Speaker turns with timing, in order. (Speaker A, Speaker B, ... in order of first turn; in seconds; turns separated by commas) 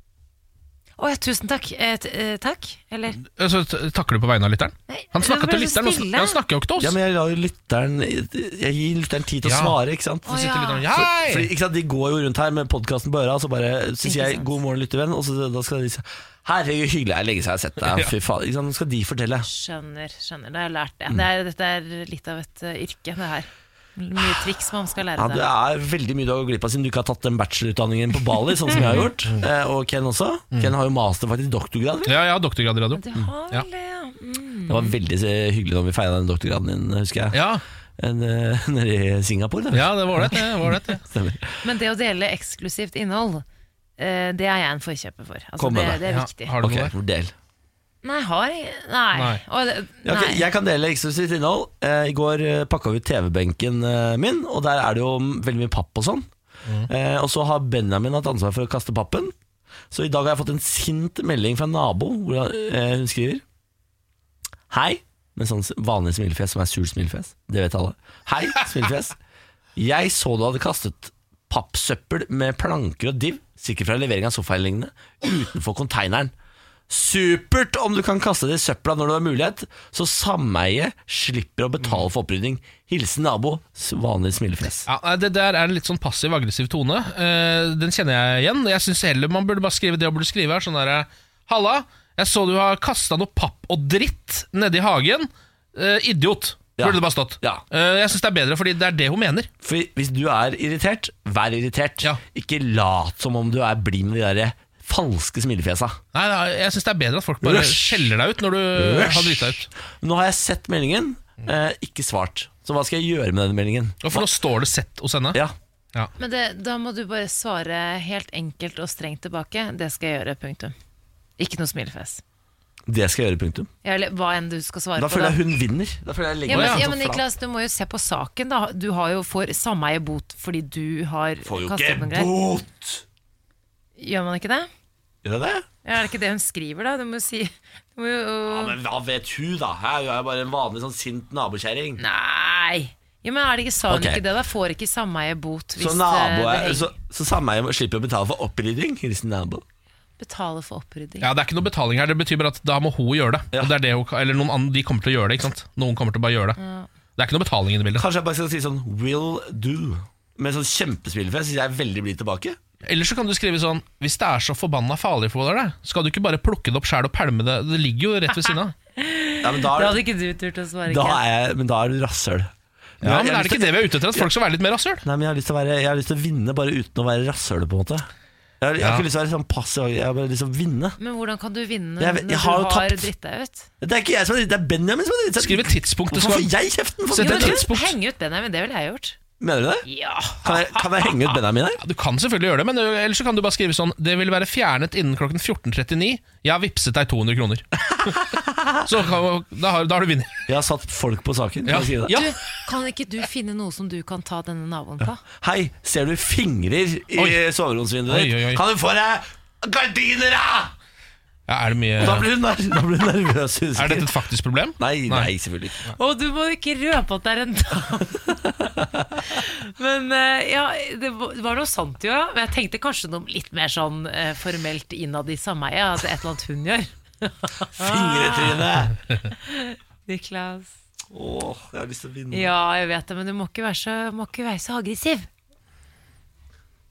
Speaker A: 1.0-3.2, Speaker B: 3.2-7.0, Speaker A: 4.9-6.4, Speaker C: 6.8-10.3, Speaker B: 9.4-11.5, Speaker A: 10.2-10.9, Speaker C: 10.9-19.5, Speaker A: 14.0-14.6, Speaker B: 17.8-18.1, Speaker A: 19.4-25.5, Speaker C: 25.2-32.1, Speaker B: 28.7-29.4, Speaker A: 28.8-29.1, Speaker B: 32.0-33.7, Speaker A: 32.9-35.0, Speaker C: 34.7-37.4, Speaker B: 37.3-37.6, Speaker C: 38.0-40.4, Speaker B: 39.7-41.0, Speaker C: 41.0-41.6, Speaker A: 41.6-43.4, Speaker A: 44.0-46.5, Speaker C: 45.6-46.0, Speaker B: 46.0-46.9, Speaker C: 46.6-47.3, Speaker A: 48.0-50.4, Speaker B: 49.1-49.4, Speaker C: 50.0-56.3, Speaker B: 56.6-56.9, Speaker C: 56.9-59.3, Speaker C: 59.9-63.4, Speaker C: 64.7-69.2, Speaker C: 69.8-76.3, Speaker C: 76.9-84.9, Speaker B: 84.8-99.5, Speaker C: 96.8-97.6, Speaker C: 99.6-106.0, Speaker B: 106.1-109.7, Speaker C: 107.4-108.1, Speaker C: 108.7-114.3, Speaker B: 114.0-115.4, Speaker A: 116.2-120.7, Speaker A: 121.4-122.2, Speaker C: 122.9-123.7, Speaker A: 123.8-125.4, Speaker C: 125.0-127.2, Speaker A: 126.5-132.3, Speaker B: 126.5-126.8, Speaker C: 131.4-133.0, Speaker A: 134.0-134.7, Speaker C: 135.2-135.7, Speaker A: 135.8-138.8, Speaker C: 138.5-142.0, Speaker A: 142.0-146.9, Speaker C: 143.9-144.2, Speaker C: 145.8-149.6, Speaker A: 150.2-151.3, Speaker B: 151.2-156.6, Speaker A: 156.6-156.9, Speaker B: 157.2-158.1, Speaker C: 158.0-162.6, Speaker B: 162.8-168.7, Speaker A: 168.4-171.2, Speaker C: 169.4-170.0, Speaker C: 170.9-172.5, Speaker B: 173.0-175.0, Speaker C: 173.0-174.3, Speaker C: 175.0-178.1, Speaker C: 178.6-181.0, Speaker B: 178.8-179.1, Speaker A: 181.0-183.7, Speaker C: 182.0-183.1, Speaker C: 183.8-187.6, Speaker B: 185.3-186.5, Speaker B: 187.1-187.9, Speaker A: 187.2-189.2, Speaker C: 189.4-189.8, Speaker A: 189.8-191.1, Speaker C: 190.4-191.8, Speaker B: 191.8-198.1, Speaker B: 198.8-200.3, Speaker C: 200.5-202.2, Speaker B: 201.7-202.3, Speaker A: 202.1-205.2, Speaker C: 205.4-210.7, Speaker B: 208.1-208.6, Speaker B: 211.5-212.3, Speaker C: 212.0-214.1, Speaker B: 213.8-215.3, Speaker C: 214.8-215.8, Speaker A: 216.0-218.4, Speaker C: 218.8-219.2, Speaker A: 219.3-228.7, Speaker C: 227.8-228.9, Speaker A: 229.3-230.7, Speaker C: 231.1-232.5, Speaker A: 232.3-235.3